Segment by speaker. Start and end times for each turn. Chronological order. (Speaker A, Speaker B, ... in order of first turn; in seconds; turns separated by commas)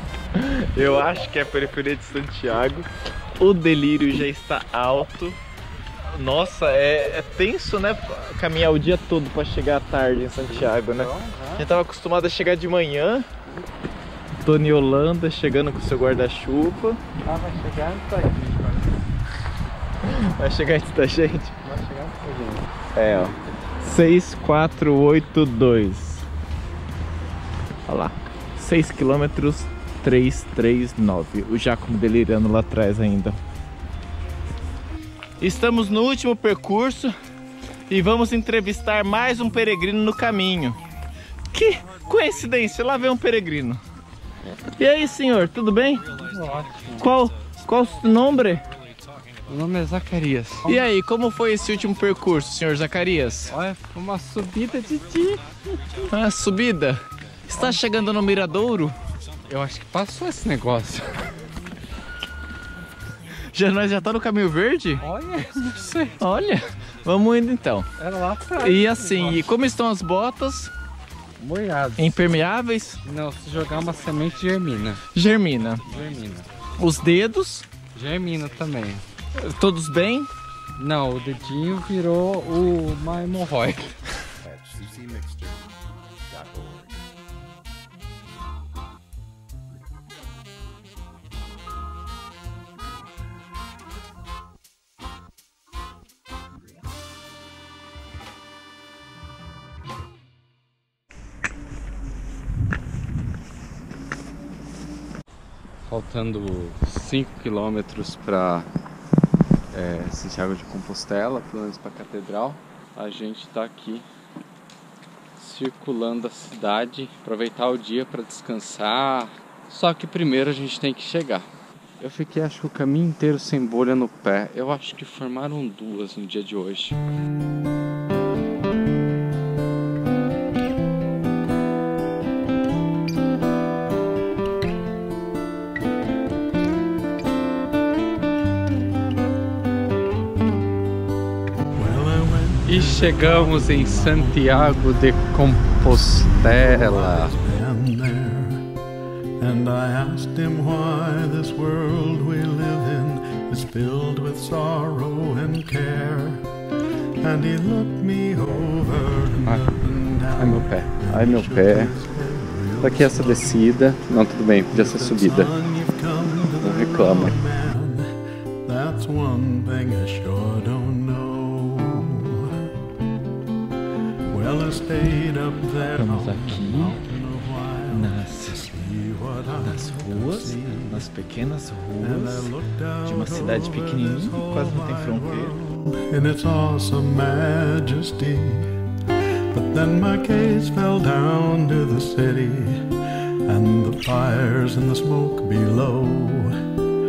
Speaker A: 0.3-5.4, Speaker A: 6.1-13.3, Speaker B: 10.5-11.7, Speaker A: 14.4-17.0, Speaker B: 17.2-19.0, Speaker A: 20.0-21.6, Speaker B: 21.6-22.7, Speaker A: 22.9-26.3, Speaker A: 27.9-33.4, Speaker A: 35.4-37.1, Speaker A: 37.9-40.8, Speaker A: 41.5-43.8, Speaker A: 44.6-46.0, Speaker B: 46.2-47.1, Speaker A: 47.0-48.6, Speaker B: 49.5-50.8, Speaker A: 50.6-53.5, Speaker B: 53.5-55.4, Speaker A: 56.0-59.0, Speaker B: 59.5-61.3, Speaker A: 63.5-65.0, Speaker B: 65.0-66.1, Speaker A: 66.2-67.9, Speaker B: 68.0-69.5, Speaker A: 68.6-70.7, Speaker B: 71.4-72.2, Speaker A: 72.0-73.0, Speaker B: 73.0-75.0, Speaker A: 75.1-75.8, Speaker B: 75.9-76.5, Speaker A: 76.8-77.7, Speaker B: 77.9-79.0, Speaker A: 79.4-80.3, Speaker B: 80.8-84.0, Speaker B: 105.8-108.7, Speaker B: 109.7-114.0, Speaker B: 115.4-121.5, Speaker B: 122.0-127.0, Speaker C: 141.8-144.6, Speaker B: 142.7-147.3, Speaker C: 145.8-148.7, Speaker C: 149.4-156.5, Speaker C: 157.2-163.8, Speaker B: 160.4-161.9, Speaker B: 162.8-165.5, Speaker C: 164.7-168.1, Speaker B: 166.6-167.3, Speaker C: 168.7-172.7, Speaker C: 174.3-181.1, Speaker A: 175.8-177.0, Speaker A: 177.9-178.6, Speaker A: 179.6-182.5, Speaker C: 182.0-188.7, Speaker A: 183.0-185.6, Speaker C: 189.5-192.8, Speaker C: 193.5-196.6